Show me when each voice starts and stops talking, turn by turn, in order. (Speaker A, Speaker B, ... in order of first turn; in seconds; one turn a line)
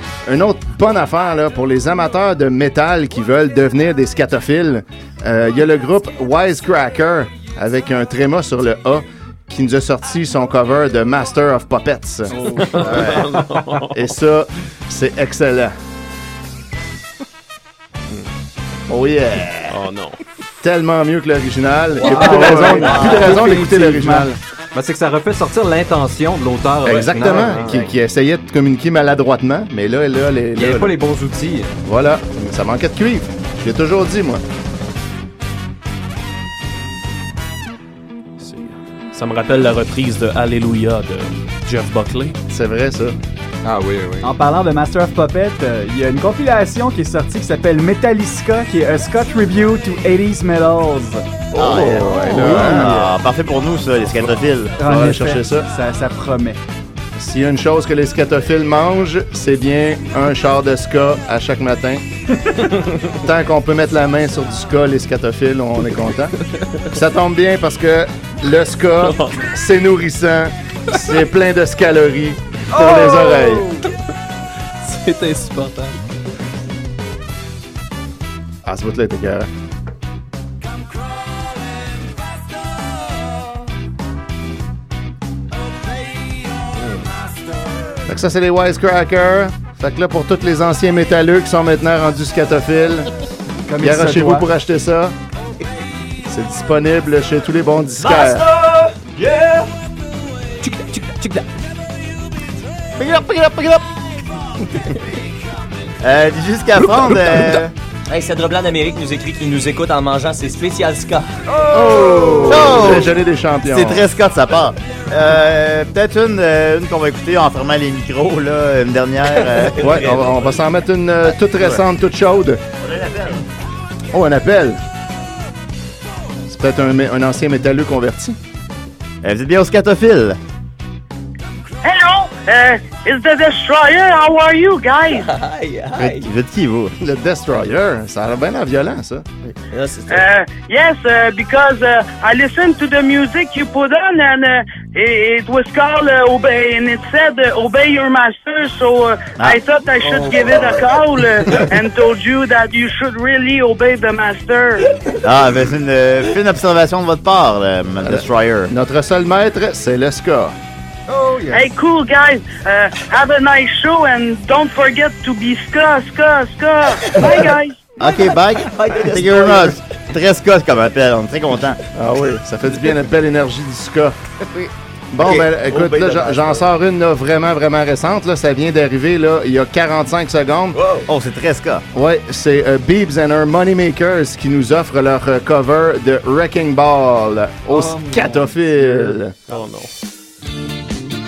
Speaker A: 0.2-15.7
Speaker B: 12.4-13.9
Speaker A: 18.9-19.8
Speaker B: 19.7-20.2
Speaker A: 20.6-24.4
Speaker C: 22.0-23.3
Speaker D: 22.0-24.3
Speaker E: 24.7-27.9
Speaker A: 26.8-31.0
Speaker E: 30.5-31.7
Speaker A: 31.8-34.4
Speaker B: 38.4-42.4
Speaker A: 42.5-43.1
Speaker E: 43.6-44.3
Speaker D: 44.2-53.1
Speaker F: 51.5-54.8
Speaker A: 51.6-53.1
Speaker D: 54.8-56.6
Speaker A: 54.8-55.7
Speaker A: 57.1-62.0
Speaker A: 63.1-66.4
Speaker B: 66.5-66.8
Speaker A: 66.9-73.7
Speaker B: 69.0-69.4
Speaker D: 72.7-73.9
Speaker B: 74.8-76.0
Speaker A: 78.6-79.5
Speaker A: 88.1-93.1
Speaker D: 93.7-94.5
Speaker A: 93.8-95.1
Speaker A: 96.3-98.5
Speaker C: 98.0-99.7
Speaker B: 100.6-101.4
Speaker F: 103.0-103.8
Speaker F: 106.0-107.7
Speaker C: 108.1-111.3
Speaker D: 111.5-112.7
Speaker A: 111.7-114.0
Speaker F: 112.4-113.1
Speaker F: 113.7-120.2
Speaker C: 119.3-120.5
Speaker A: 119.7-122.6
Speaker F: 122.9-123.3
Speaker A: 124.1-124.8
Speaker A: 126.5-128.4
Speaker F: 129.2-130.4
Speaker G: 131.8-135.3
Speaker C: 135.1-136.3
Speaker F: 135.9-137.0
Speaker A: 137.0-139.2
Speaker C: 139.7-140.3
Speaker G: 140.1-154.9
Speaker C: 150.2-150.5
Speaker F: 155.2-158.7
Speaker A: 158.0-160.5
Speaker D: 161.1-161.7
Speaker G: 161.5-167.9
Speaker F: 168.0-171.8
Speaker C: 168.6-169.8
Speaker A: 171.9-174.2
Speaker A: 175.1-180.8
Speaker C: 175.2-176.7
Speaker C: 180.7-181.1
Speaker F: 181.1-181.8
Speaker A: 181.9-189.3
Speaker D: 187.7-189.1
Speaker B: 189.5-189.9